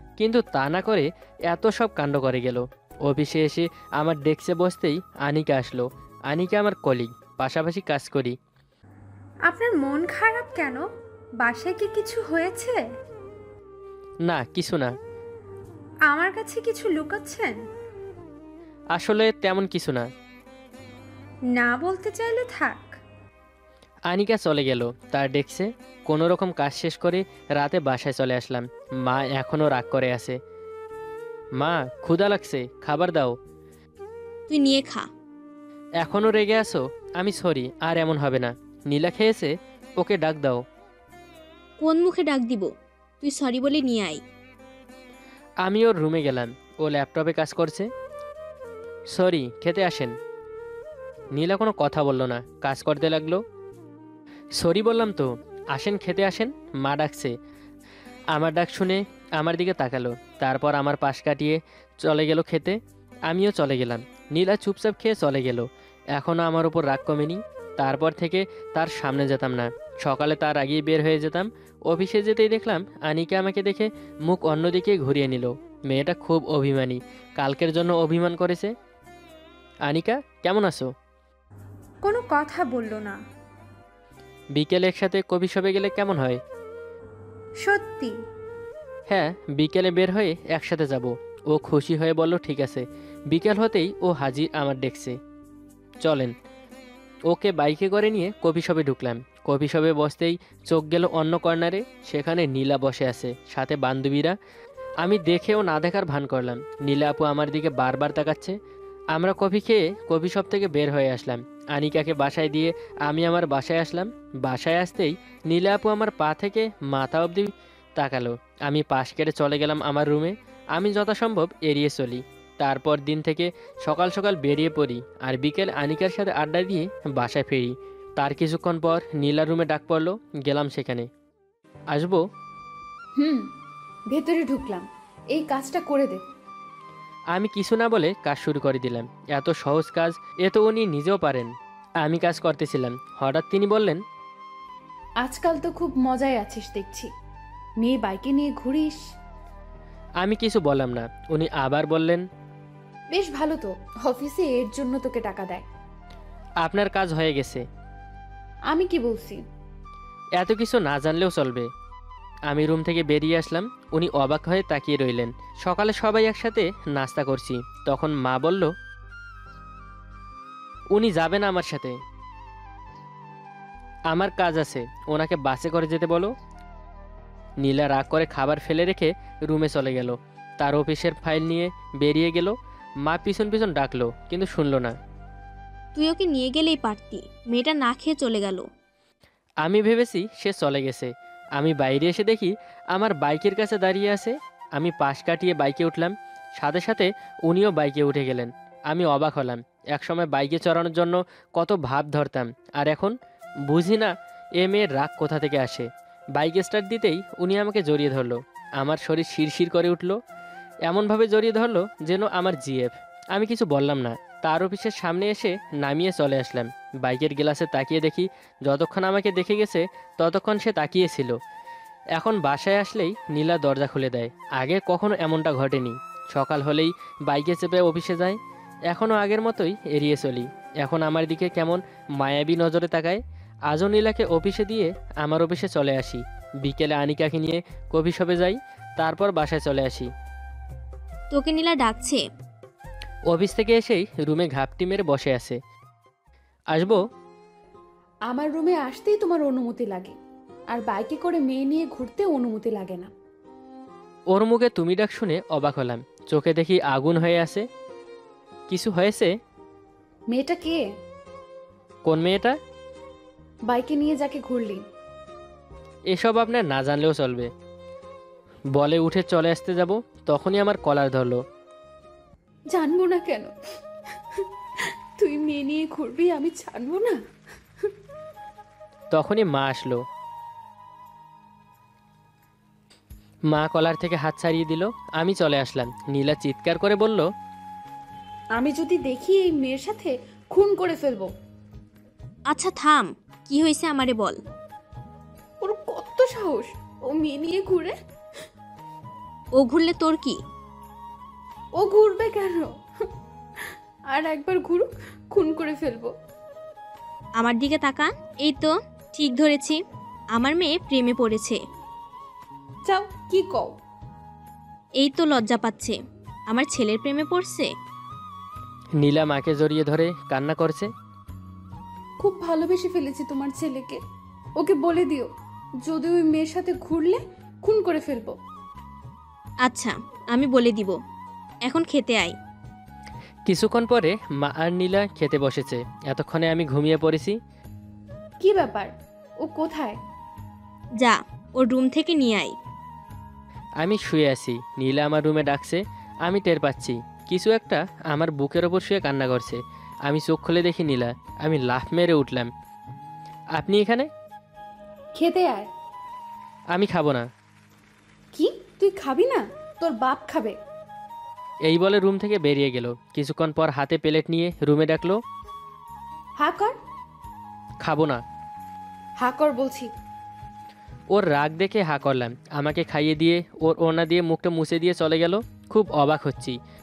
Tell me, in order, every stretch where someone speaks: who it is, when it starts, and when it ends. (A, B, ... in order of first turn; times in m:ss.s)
0:00.2-0:08.4 A
0:09.5-0:10.8 B
0:11.4-0:12.8 B
0:14.3-0:14.9 A
0:16.1-0:17.6 B
0:19.0-0:20.1 A
0:21.5-0:22.9 B
0:24.1-0:30.4 A
0:31.6-0:33.4 A
0:34.5-0:35.0 C
0:36.0-0:40.6 A
0:41.8-0:42.7 C
0:43.2-0:44.2 C
0:45.6-0:47.9 A
0:49.1-0:50.2 A
0:51.4-0:53.4 A
0:54.6-0:57.3 A
0:58.3-1:02.8 A
1:03.3-1:18.7 A
1:19.9-1:20.9 A
1:22.0-1:23.2 B
1:24.6-1:26.4 A
1:27.6-1:28.2 B
1:29.1-1:35.2 A
1:36.0-1:36.3 A
1:37.3-1:44.4 A
1:45.0-1:48.6 A
1:49.1-2:11.1 A
2:11.9-2:12.2 A
2:13.2-2:13.5 D
2:14.1-2:16.2 D
2:17.3-2:21.5 A
2:22.0-2:24.0 A
2:25.2-2:27.1 D
2:27.8-2:29.0 D
2:30.2-2:32.2 A
2:33.1-2:35.6 D
2:36.6-2:37.6 A
2:38.7-2:39.4 D
2:40.4-2:41.7 A
2:42.5-2:48.7 A
2:50.9-2:52.0 A
2:54.1-2:56.3 A
2:57.6-3:05.0 A
3:06.0-3:08.7 C
3:09.6-3:23.1 A
3:23.7-3:30.2 A
3:30.9-3:41.4 A
3:42.2-3:48.4 A
3:48.9-4:00.1 A
4:01.3-4:02.2 C
4:03.3-4:05.6 A
4:06.7-4:07.0 A
4:08.3-4:10.2 D
4:10.7-4:13.1 D
4:14.3-4:17.6 A
4:18.7-4:19.3 A
4:20.3-4:20.8 D
4:22.1-4:22.6 A
4:23.7-4:24.8 D
4:26.1-4:27.5 A
4:28.8-4:31.4 A
4:32.7-4:33.5 D
4:35.2-4:37.2 D
4:39.1-4:40.0 A
4:43.5-4:47.3 A
4:48.6-4:51.3 D
4:52.5-4:54.4 C
4:55.6-4:57.9 D
4:59.6-5:00.4 C
5:01.8-5:02.7 D
5:04.1-5:06.1 D
5:07.4-5:09.8 C
5:10.3-5:11.6 C
5:12.8-5:13.7 D
5:15.0-5:16.0 C
5:16.5-5:17.7 C
5:19.0-5:20.9 A
5:22.2-5:24.0 D
5:24.6-5:25.3 D
5:25.8-5:28.3 D
5:29.7-5:31.0 C
5:31.7-5:32.3 C
5:33.5-5:37.4 A
5:38.4-5:38.9 D
5:39.4-5:40.0 D
5:41.0-5:42.5 C
5:43.8-5:52.5 A
5:53.6-5:54.1 A
5:55.2-5:55.7 D
5:56.7-5:57.3 A
5:58.3-6:00.6 D
6:01.7-6:05.2 A
6:06.4-6:06.8 D
6:07.8-6:08.2 A
6:09.2-6:09.9 D
6:11.1-6:16.6 A